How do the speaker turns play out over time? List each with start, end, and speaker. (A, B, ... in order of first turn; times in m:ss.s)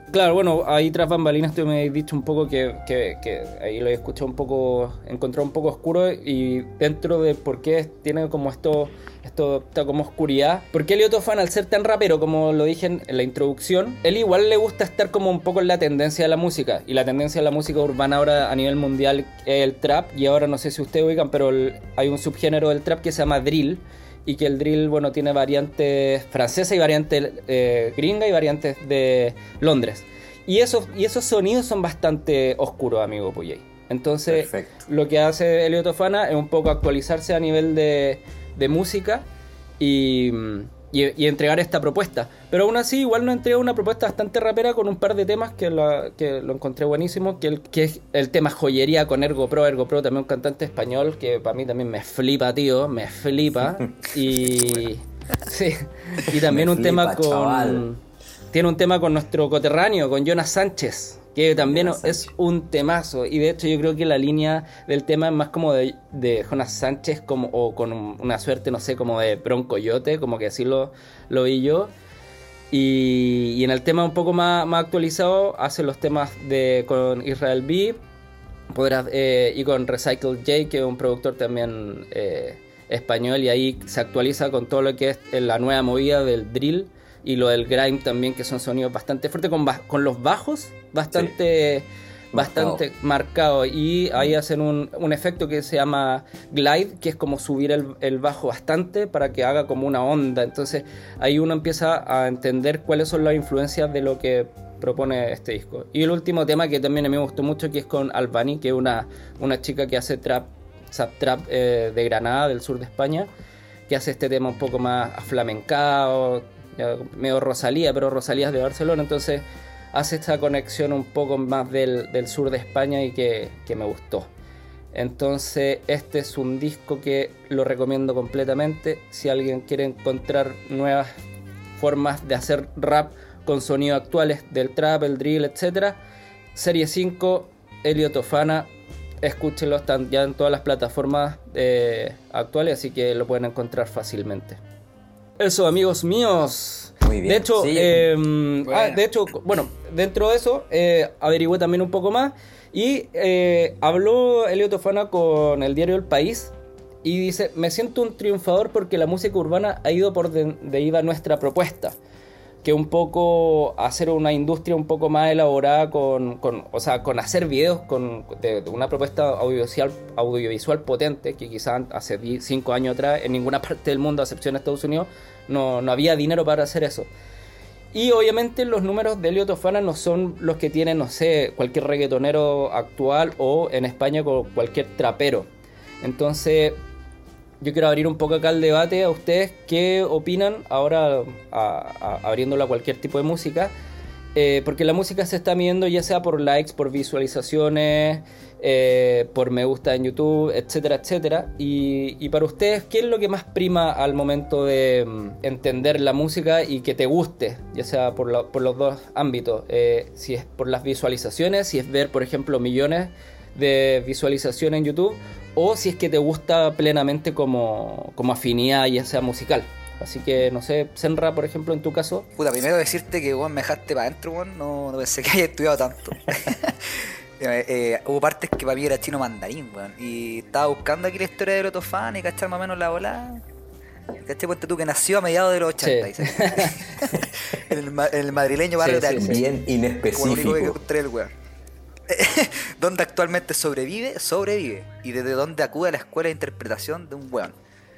0:00.1-0:39.2 A
0:34.3-0:34.8 B
0:39.8-0:58.0 A
0:56.3-0:57.8 B
0:58.5-1:11.9 A
1:01.6-1:02.3 B
1:12.7-1:18.0 A
1:18.7-1:53.3 A
1:32.3-1:32.8 B
1:53.9-2:04.3 A
2:04.9-2:11.1 A
2:11.8-2:16.0 A
2:16.5-2:18.7 A
2:19.2-2:24.6 A
2:25.4-2:42.0 A
2:27.0-2:28.1 B
2:28.7-2:29.0 C
2:42.6-2:57.1 A
2:57.9-3:05.5 A
3:06.0-3:06.8 A
3:07.6-3:13.7 A
3:14.3-3:42.3 A
3:42.4-3:53.4 C
3:54.2-3:59.4 C
3:55.8-3:56.8 A
3:58.8-3:59.4 A
3:59.1-4:00.8 B
4:00.1-4:01.3 C
4:02.1-4:07.5 C